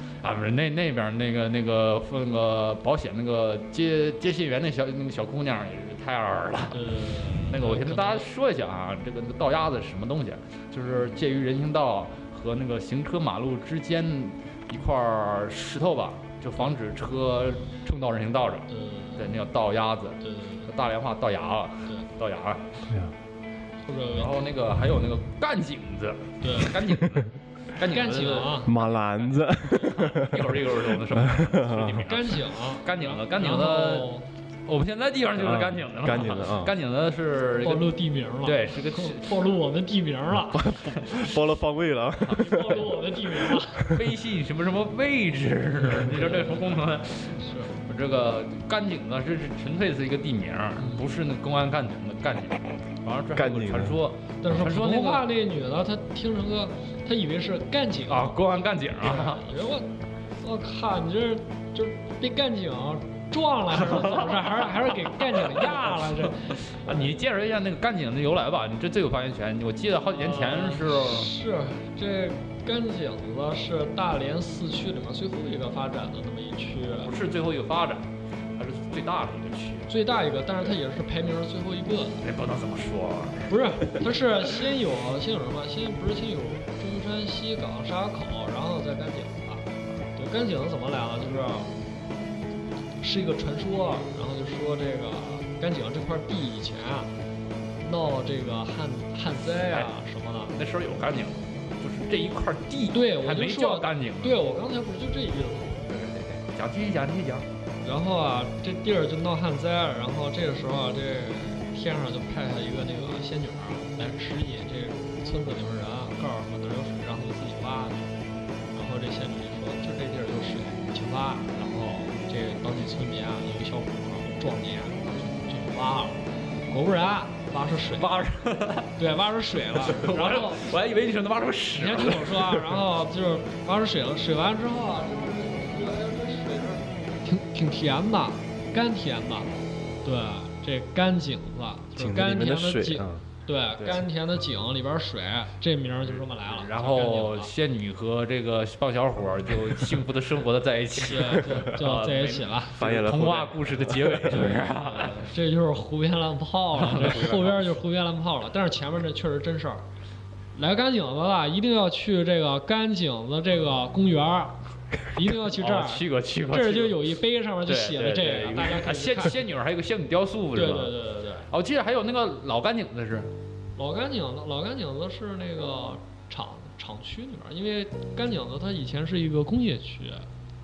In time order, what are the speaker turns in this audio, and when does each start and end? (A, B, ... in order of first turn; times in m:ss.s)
0:00.2-0:22.8 A
0:06.7-0:08.2 B
0:18.7-0:19.3 B
0:20.2-0:20.7 B
0:22.9-0:23.1 C
0:23.8-0:24.4 B
0:24.1-0:34.1 A
0:26.4-0:26.8 B
0:27.8-0:28.7 B
0:28.6-0:32.0 C
0:32.0-0:34.3 B
0:34.7-0:39.3 A
0:35.4-0:36.7 C
0:37.6-0:40.8 B
0:40.6-0:42.9 C
0:40.9-0:41.3 A
0:42.3-0:44.0 B
0:43.8-0:55.3 A
0:46.1-0:46.7 B
0:47.4-0:47.7 B
0:50.8-0:51.1 B
0:53.3-0:54.0 C
0:54.4-0:58.4 B
0:58.1-0:59.4 A
0:59.0-1:07.1 B
1:03.8-1:11.3 A
1:10.2-1:17.1 B
1:17.0-1:19.9 A
1:19.9-1:22.2 B
1:22.2-1:23.5 A
1:23.5-1:31.7 B
1:33.0-1:37.1 B
1:37.8-1:40.5 B
1:40.5-1:44.4 A
1:42.9-1:45.9 B
1:45.9-1:47.5 A
1:47.8-1:58.1 B
1:58.7-2:08.1 B
2:08.0-2:08.9 A
2:09.0-2:10.7 B
2:09.8-2:12.7 A
2:11.8-2:27.5 B
2:22.0-2:23.2 C
2:26.0-2:35.3 A
2:30.9-2:32.7 B
2:32.8-2:34.5 C
2:34.3-2:39.8 B
2:36.7-2:37.6 A
2:40.5-2:44.6 B
2:45.1-2:49.4 B
2:45.3-2:51.0 A
2:50.5-2:51.5 B
2:51.5-2:53.3 A
2:53.8-3:00.3 B